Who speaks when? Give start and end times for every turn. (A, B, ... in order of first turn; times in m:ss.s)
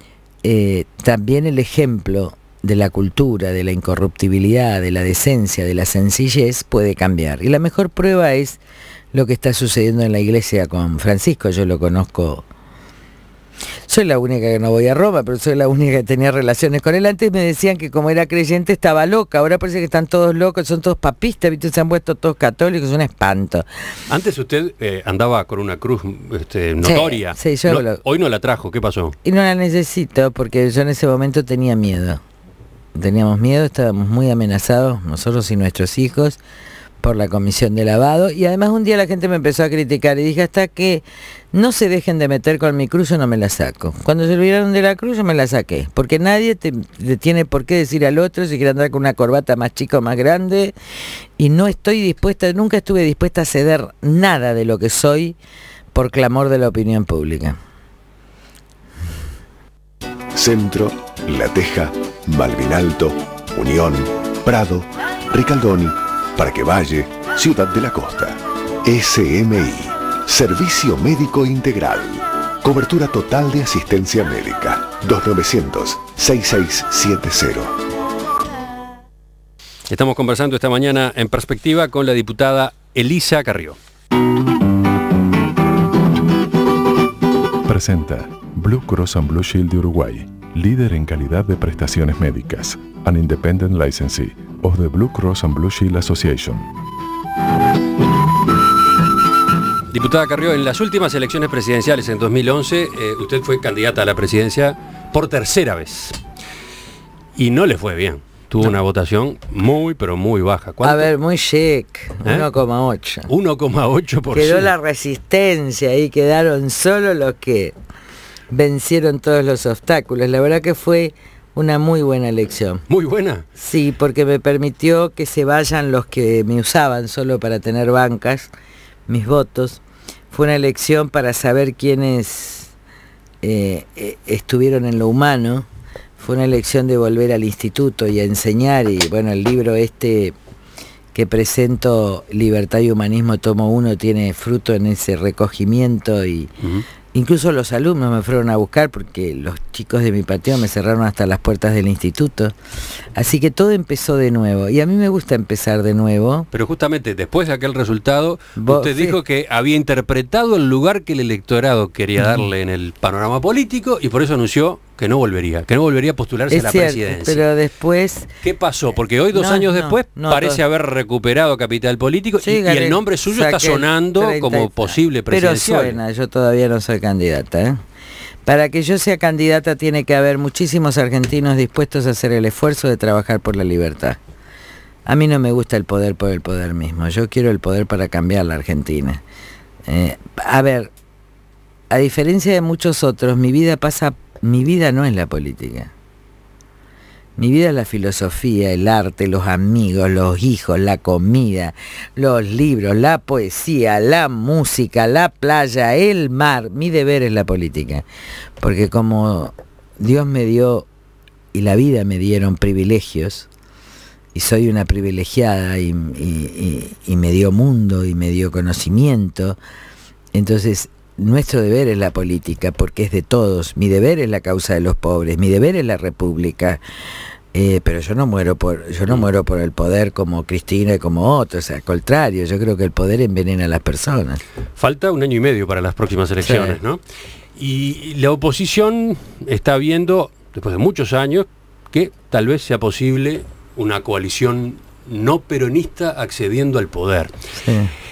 0:00.4-0:08.6 A
0:09.1-0:12.4 A
0:13.9-0:23.7 A
0:24.1-0:29.2 B
0:26.8-0:28.0 A
0:29.2-0:32.2 A
0:33.0-0:36.4 A
0:37.0-0:50.7 A
0:51.4-0:55.4 A
0:55.9-0:57.6 A
1:00.3-1:17.8 C
1:19.9-1:23.8 B
1:27.7-1:36.7 D
1:39.9-1:46.2 B
1:47.4-1:51.1 B
1:50.8-1:53.3 A
1:53.3-1:54.7 B
1:54.3-1:57.8 A
1:58.5-2:02.8 A
2:02.9-2:03.4 B
2:03.6-2:08.5 A
2:09.1-2:12.7 A
2:13.4-2:15.7 A
2:16.2-2:20.4 A
2:21.1-2:26.5 A
2:27.1-2:32.6 A
2:33.1-2:36.5 A
2:36.5-2:47.4 B
2:38.6-2:39.2 A
2:46.5-2:48.3 A
2:48.4-2:56.0 B
2:49.3-2:50.6 A
2:52.4-2:57.8 A
2:58.4-3:04.2 A
3:05.1-3:09.2 A
3:09.9-3:10.9 A
3:11.9-3:15.9 A
3:17.4-3:28.0 A
3:28.6-3:30.9 A
3:31.5-3:33.5 A
3:34.3-3:39.6 A
3:40.3-3:46.8 A
3:47.5-3:54.4 A
3:54.8-3:57.0 B
3:56.4-3:56.8 A
3:57.6-4:07.4 B
4:07.6-4:07.9 A